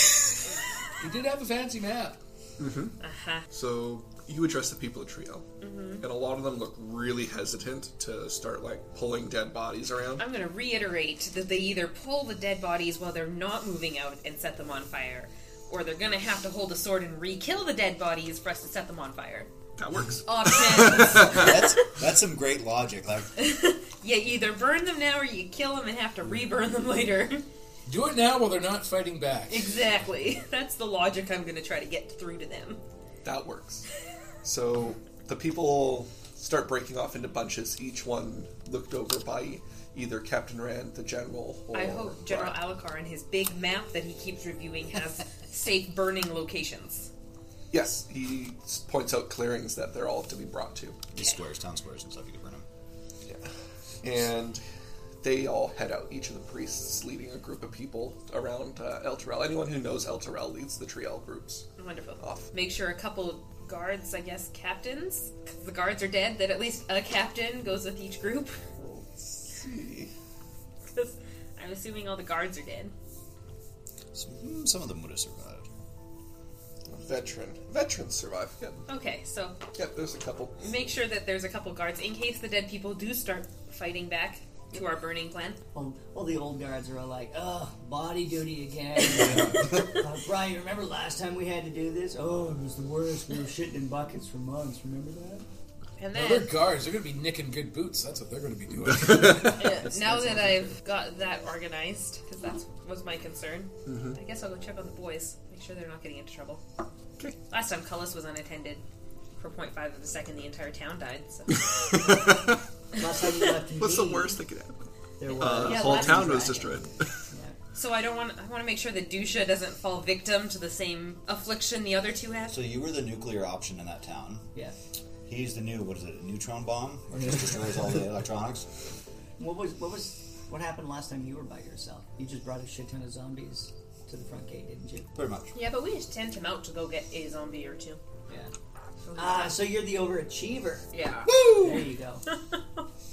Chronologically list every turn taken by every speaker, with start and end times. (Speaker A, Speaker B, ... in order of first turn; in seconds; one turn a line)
Speaker A: 1.0-2.2
Speaker B: 2.6-3.0
Speaker C: 3.0-3.5
Speaker B: 3.5-10.2
Speaker C: 5.6-6.0
Speaker C: 10.2-19.5
Speaker B: 19.8-21.5
Speaker C: 20.2-21.7
Speaker D: 21.1-23.3
Speaker C: 23.4-27.4
Speaker A: 27.9-29.7
Speaker C: 29.5-32.8
Speaker B: 33.2-33.9
Speaker B: 34.4-42.6
Speaker C: 41.7-47.1
Speaker B: 47.7-51.0
Speaker D: 51.1-52.6
Speaker B: 53.2-53.5
Speaker B: 54.0-54.6
Speaker B: 55.2-61.6
Speaker C: 61.8-68.6
Speaker B: 62.2-62.5
Speaker B: 68.8-70.1
Speaker C: 70.9-72.9
Speaker D: 74.1-75.7
Speaker B: 76.9-78.8
Speaker C: 78.9-79.6
Speaker B: 79.7-80.5
Speaker C: 80.6-85.6
Speaker E: 85.7-95.5
Speaker A: 89.3-89.6
Speaker C: 96.0-96.6
Speaker A: 96.1-99.8
Speaker B: 99.0-99.5
Speaker C: 99.5-106.6
Speaker E: 99.7-100.8
Speaker B: 103.8-104.2
Speaker C: 107.5-108.8
Speaker C: 109.4-112.3
Speaker B: 111.6-112.6
Speaker E: 112.9-114.4
Speaker B: 113.8-117.1
Speaker E: 115.2-117.5
Speaker C: 115.5-116.8
Speaker C: 117.7-122.6
Speaker D: 122.5-124.5
Speaker D: 125.3-128.7
Speaker E: 129.4-135.1
Speaker D: 135.1-135.6
Speaker C: 135.5-138.0
Speaker C: 139.0-139.6
Speaker E: 139.2-142.2
Speaker C: 140.9-141.3
Speaker C: 142.3-142.8